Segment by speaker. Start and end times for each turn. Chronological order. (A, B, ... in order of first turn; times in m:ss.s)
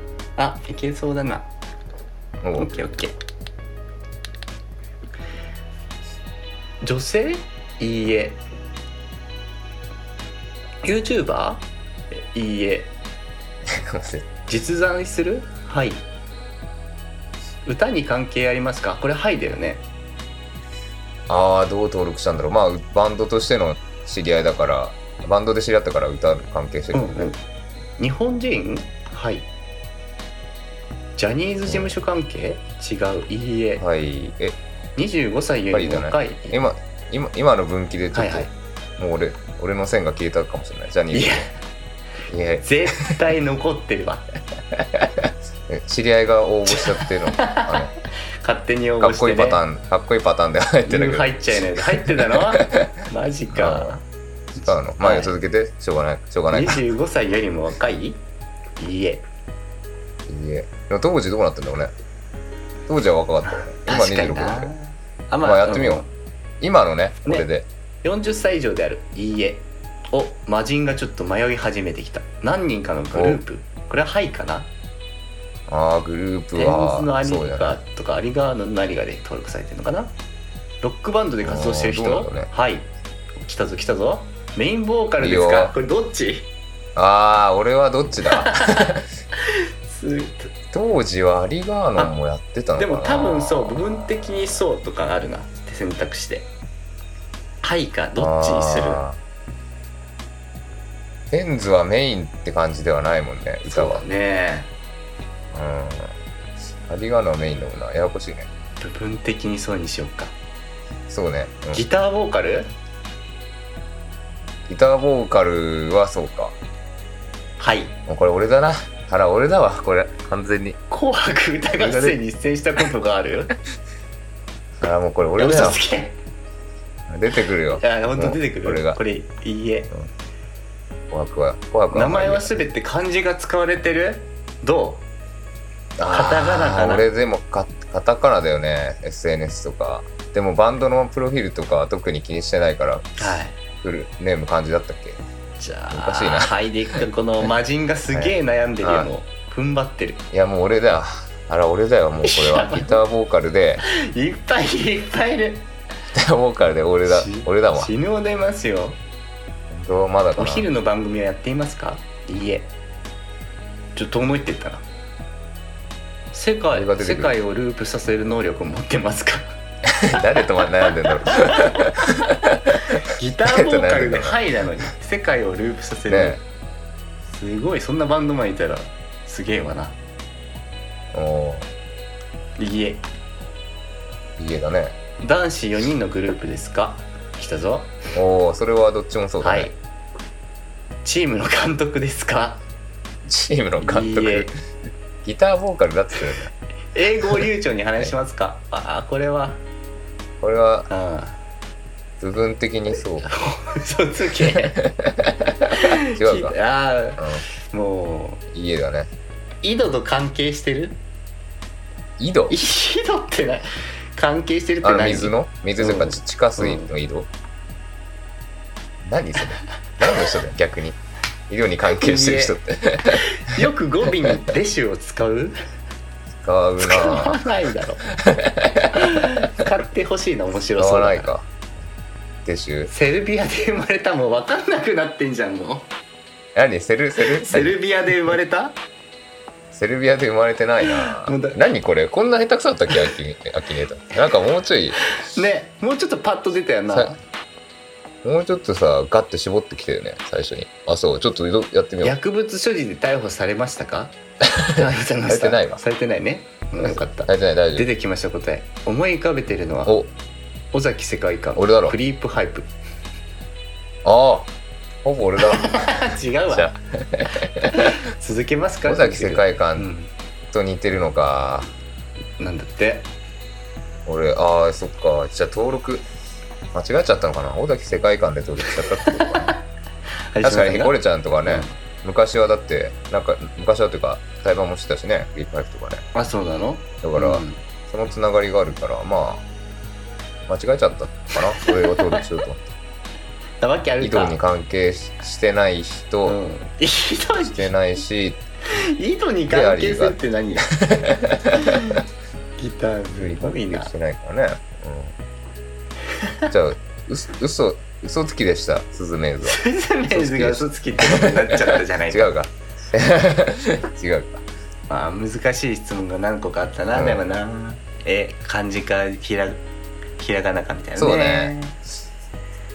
0:00.4-0:01.5 A
0:02.4-0:02.7 B
0:02.6-0:03.2 A
0:06.8-0:08.4 A
0:10.8-0:12.9 A
0:13.7-0:14.3 B
0:14.5-0:16.0 A
0:17.6-0:19.8 A
0:21.3-0:27.3 B
0:26.9-0:27.4 A
0:28.0-0:29.5 A
0:31.2-0:33.8 A
0:31.7-0:31.9 B
0:33.8-0:34.6 B
0:35.0-0:36.7 A
0:35.7-0:41.5 B
0:38.1-0:38.5 A
0:41.1-0:41.6 A
0:42.3-0:43.1 B
0:42.6-0:44.3 A
0:45.2-0:47.9 B
0:46.7-0:47.9 A
0:48.4-0:49.6 A
0:49.0-0:52.7 B
0:50.8-0:54.0 A
0:53.5-0:53.9 B
0:54.6-0:56.8 B
0:54.6-0:55.3 A
0:56.5-0:58.2 A
0:58.8-0:59.2 A
1:00.3-1:01.9 B
1:02.9-1:04.7 B
1:03.4-1:06.1 A
1:05.4-1:06.0 B
1:06.6-1:07.7 B
1:08.0-1:14.7 A
1:13.1-1:13.4 B
1:15.7-1:17.8 B
1:16.5-1:20.1 A
1:20.8-1:26.5 A
1:21.4-1:22.5 B
1:25.2-1:25.7 B
1:27.0-1:29.0 B
1:28.3-1:30.5 A
1:30.7-1:33.8 B
1:32.8-1:36.5 A
1:37.6-1:39.0 A
1:38.2-1:39.2 B
1:41.3-1:44.0 B
1:43.6-1:44.7 A
1:45.5-1:46.1 B
1:46.9-1:48.5 B
1:48.8-1:50.3 A
1:51.1-1:51.8 B
1:51.7-1:52.7 A
1:54.7-1:56.6 B
1:57.6-1:58.0 A
1:58.1-2:00.8 B
2:00.9-2:03.5 A
2:01.8-2:02.2 B
2:04.8-2:05.8 B
2:05.4-2:06.2 A
2:07.1-2:09.0 B
2:07.7-2:09.9 A
2:11.1-2:12.5 B
2:11.9-2:15.0 A
2:16.0-2:25.2 B
2:16.0-2:17.1 A
2:23.2-2:23.6 A
2:25.6-2:30.2 A
2:25.9-2:26.6 B
2:28.1-2:29.1 B
2:30.3-2:33.8 B
2:32.2-2:33.0 A
2:33.8-2:35.7 A
2:36.1-2:37.9 B
2:37.0-2:39.0 A
2:39.7-2:40.7 B
2:40.4-2:42.7 A
2:44.0-2:44.8 A
2:46.3-2:49.6 A
2:46.7-2:47.3 B
2:49.8-2:54.4 B
2:51.0-2:52.1 A
2:52.9-2:56.4 A
2:56.1-2:56.4 B
2:57.2-3:00.0 A
3:01.1-3:01.7 B
3:02.6-3:03.0 A
3:04.4-3:05.0 B
3:05.2-3:08.0 A
3:08.1-3:09.7 B
3:09.4-3:09.8 A
3:11.0-3:12.6 A
3:13.2-3:14.5 B
3:13.8-3:14.5 A
3:15.2-3:16.5 B
3:16.9-3:19.6 A
3:20.4-3:20.9 B
3:20.9-3:21.4 A
3:22.2-3:23.3 B
3:23.2-3:24.8 A
3:24.8-3:26.6 B
3:25.6-3:28.4 A
3:27.2-3:27.4 B
3:28.5-3:29.1 B
3:29.6-3:31.0 A
3:32.2-3:32.6 B
3:32.5-3:36.9 A
3:34.8-3:37.3 B
3:39.0-3:41.0 B
3:41.5-3:43.5 B
3:41.9-3:45.6 A
3:46.4-3:47.5 B
3:46.8-3:48.1 A
3:48.1-3:49.4 B
3:48.8-3:51.3 A
3:50.8-3:51.5 B
3:52.4-3:52.9 B
3:52.9-3:55.9 A
3:56.5-3:57.8 B
3:57.2-3:58.8 A
3:59.7-4:05.0 B
4:00.8-4:01.6 A
4:05.0-4:07.2 A
4:08.2-4:12.2 B
4:12.0-4:20.0 A
4:14.5-4:15.8 B
4:16.8-4:17.9 B
4:19.8-4:20.1 B
4:20.7-4:22.7 A
4:21.6-4:22.0 B
4:24.0-4:24.5 B
4:25.0-4:25.9 B
4:25.4-4:26.7 A
4:26.5-4:28.0 B
4:27.6-4:30.1 A
4:28.8-4:29.9 B
4:30.5-4:31.7 B
4:32.4-4:33.1 A
4:34.0-4:36.0 B
4:36.7-4:39.6 B
4:38.9-4:39.6 A
4:40.3-4:41.7 A
4:40.4-4:46.0 B
4:46.1-4:47.6 A
4:47.0-4:49.4 B
4:50.5-4:52.6 B
4:51.5-4:52.3 A
4:53.6-4:54.4 A
4:54.0-4:56.4 B
4:56.2-4:57.7 A
4:57.4-4:58.4 B
4:58.6-5:02.0 A
4:59.5-5:02.0 B
5:02.6-5:03.9 A
5:03.2-5:05.1 B
5:06.2-5:06.4 A
5:06.5-5:14.4 B
5:09.4-5:12.3 A
5:14.9-5:19.6 A
5:16.9-5:17.2 B
5:20.2-5:21.8 A
5:21.0-5:21.5 B